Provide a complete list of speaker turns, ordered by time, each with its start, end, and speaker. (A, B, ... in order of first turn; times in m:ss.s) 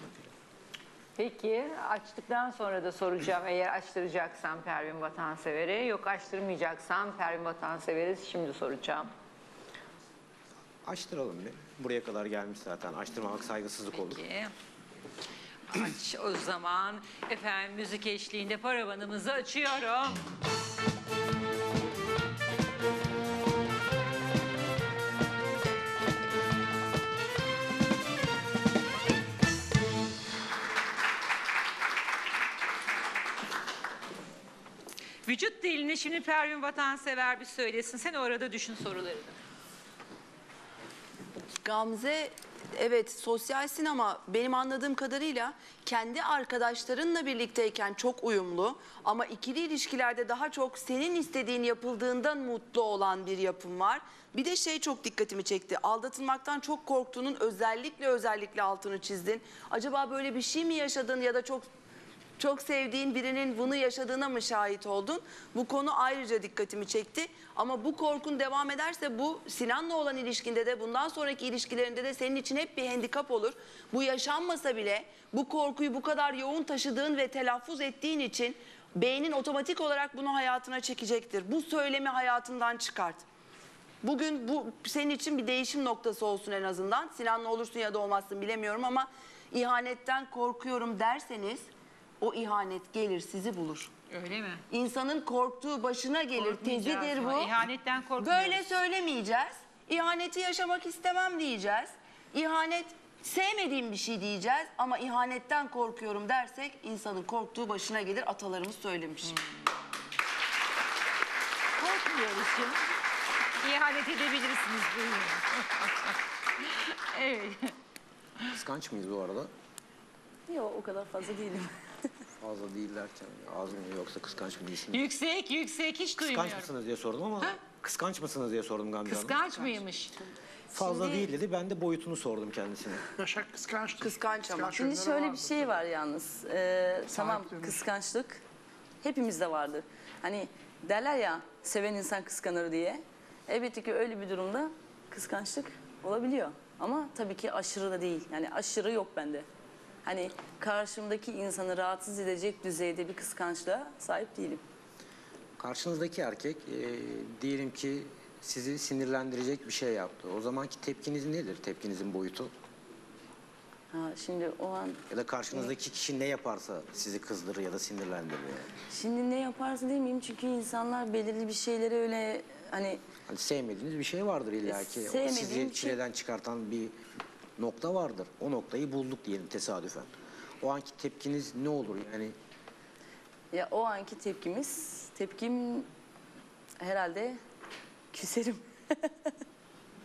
0:01.2-0:09.1 A
0:10.8-0:14.2 B
0:13.9-0:14.5 A
0:15.7-0:20.2 A
0:35.2-0:39.3 A
0:41.6-1:01.6 C
1:02.4-1:23.2 C
1:24.0-1:31.6 C
1:32.2-1:33.9 C
1:34.1-1:34.6 A
1:34.7-1:37.6 C
1:36.3-1:38.8 A
1:38.2-1:49.6 C
1:51.8-1:52.8 A
1:53.6-1:56.1 A
1:57.1-1:57.7 A
1:58.5-1:59.5 B
2:00.5-2:01.7 D
2:02.4-2:05.0 B
2:04.9-2:06.7 A
2:06.2-2:09.4 B
2:09.0-2:11.3 A
2:10.7-2:13.0 B
2:13.2-2:15.8 E
2:14.0-2:14.7 C
2:14.8-2:18.4 D
2:17.1-2:17.8 E
2:19.0-2:29.5 D
2:30.0-2:34.6 D
2:35.6-2:42.5 B
2:43.9-2:45.0 D
2:45.1-2:48.7 B
2:48.9-2:53.0 D
2:53.3-2:56.9 B
2:54.6-2:56.0 D
2:57.6-3:02.4 B
3:03.5-3:05.9 D
3:06.8-3:07.4 D
3:08.1-3:08.6 D